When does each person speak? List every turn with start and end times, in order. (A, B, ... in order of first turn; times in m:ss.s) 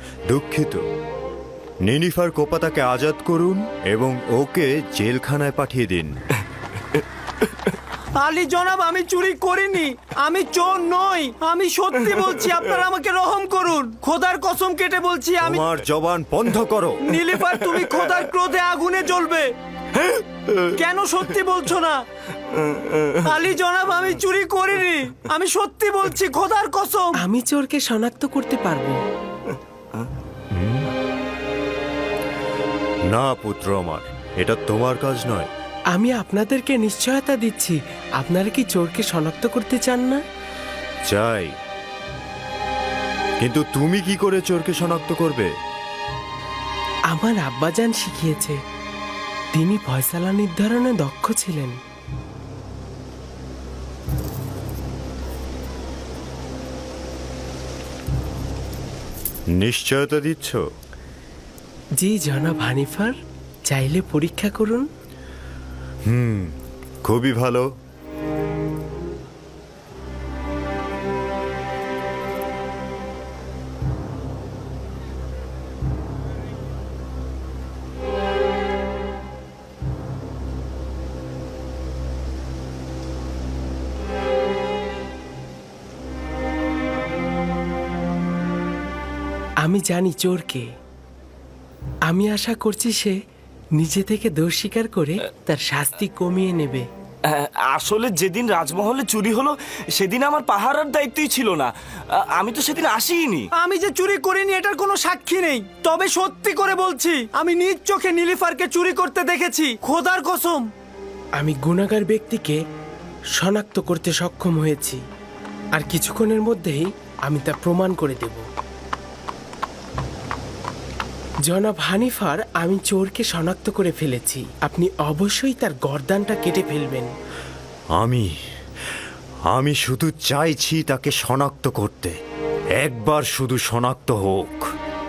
0:00.3-0:00.8 A
0:01.8-0:06.1 A
0:08.2-0:15.7 B
0:15.4-0:17.1 A
0:17.0-0:19.5 B
0:20.0-0:20.6 C
0:20.7-0:22.0 B
0:23.2-0:27.2 B
0:27.2-0:29.0 D
0:30.5-0:30.9 A
0:33.1-0:35.5 A
0:35.9-0:40.2 D
0:41.1-0:41.6 A
0:43.4-0:45.5 A
0:47.1-0:48.6 D
0:49.5-0:51.8 D
0:59.5-1:00.6 A
1:02.0-1:03.2 D
1:03.7-1:04.9 D
1:06.1-1:07.7 A
1:29.6-1:30.7 D
1:32.1-1:33.2 D
1:33.8-1:36.9 D
1:37.3-1:43.5 C
1:43.6-1:50.7 B
1:51.4-1:52.6 D
1:53.4-1:55.0 D
1:55.8-1:58.4 D
2:01.5-2:07.1 D
2:08.0-2:08.3 A
2:09.5-2:12.2 A
2:12.8-2:14.7 A